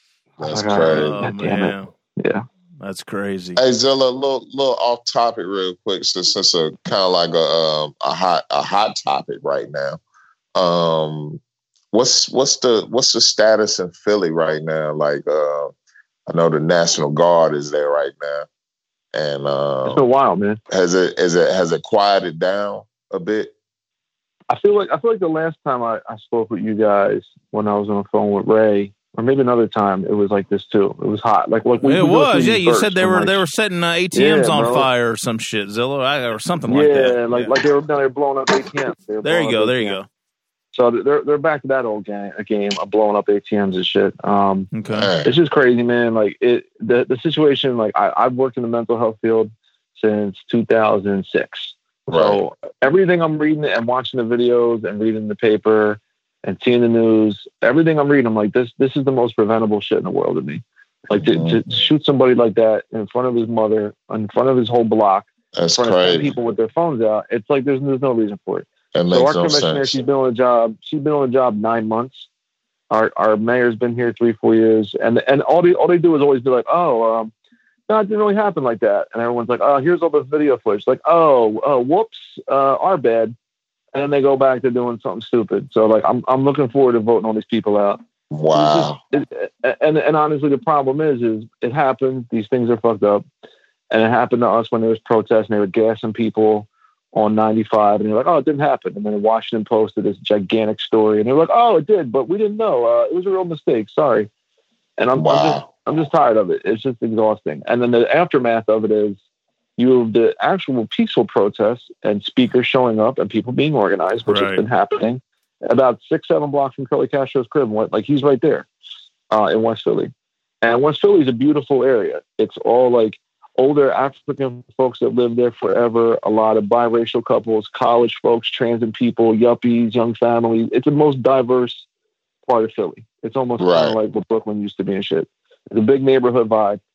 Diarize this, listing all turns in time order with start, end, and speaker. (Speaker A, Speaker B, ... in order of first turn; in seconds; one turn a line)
Speaker A: 0.4-1.1
Speaker B: 0.4-2.4
Speaker C: 0.8-1.9
Speaker C: 2.8-3.6
Speaker A: 3.6-10.0
Speaker A: 10.6-11.4
Speaker A: 11.9-15.7
Speaker A: 16.3-18.5
Speaker A: 19.1-20.1
Speaker B: 19.9-20.6
Speaker A: 20.7-23.5
Speaker B: 24.5-33.4
Speaker C: 31.8-37.5
Speaker B: 34.1-34.9
Speaker B: 36.7-40.0
Speaker C: 39.2-40.1
Speaker B: 40.7-44.7
Speaker C: 44.7-45.1
Speaker A: 44.9-45.4
Speaker B: 45.2-72.3
Speaker A: 52.1-52.4
Speaker A: 61.1-61.6
Speaker A: 65.5-66.3
Speaker A: 68.9-70.0
Speaker B: 72.9-77.3
Speaker B: 77.9-83.3
Speaker B: 83.9-88.0
Speaker A: 88.3-89.0
Speaker B: 88.5-93.2
Speaker B: 93.9-104.3
Speaker B: 105.0-109.2
Speaker A: 105.2-105.7
Speaker B: 109.8-118.7
Speaker C: 114.3-114.6
Speaker B: 119.3-131.9
Speaker B: 132.5-136.8
Speaker A: 133.6-134.0